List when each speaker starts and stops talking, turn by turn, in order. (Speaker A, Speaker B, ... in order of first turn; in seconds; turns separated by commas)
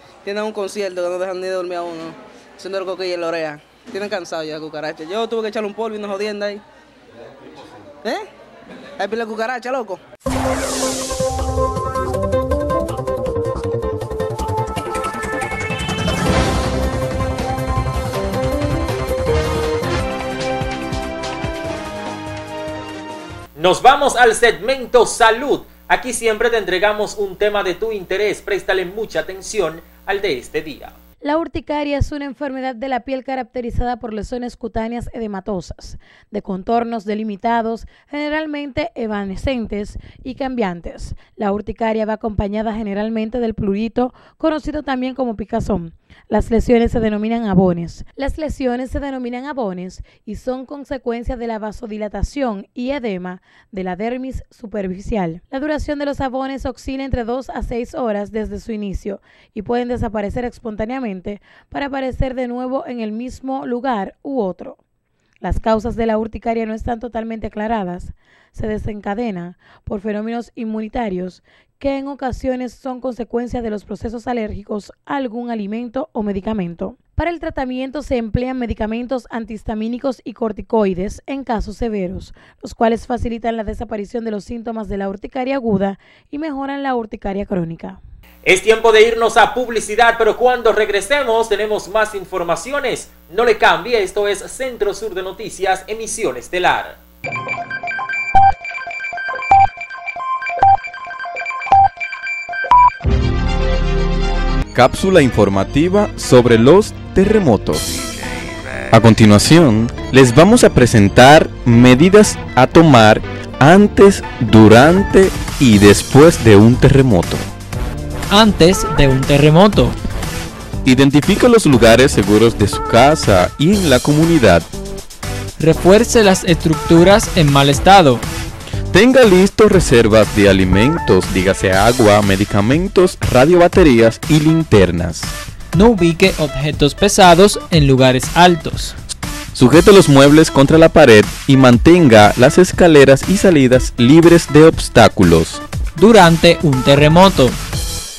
Speaker A: 0.2-6.6, Speaker A: 9.0-10.0, Speaker B: 23.6-30.9, Speaker C: 31.2-64.8, Speaker C: 65.4-88.0, Speaker B: 88.4-97.0, Speaker D: 104.7-108.0, Speaker D: 108.9-117.5, Speaker E: 118.3-119.9, Speaker D: 120.8-124.7, Speaker E: 125.6-128.2, Speaker D: 128.9-135.3, Speaker E: 135.7-138.9, Speaker D: 139.6-145.6, Speaker E: 146.0-147.6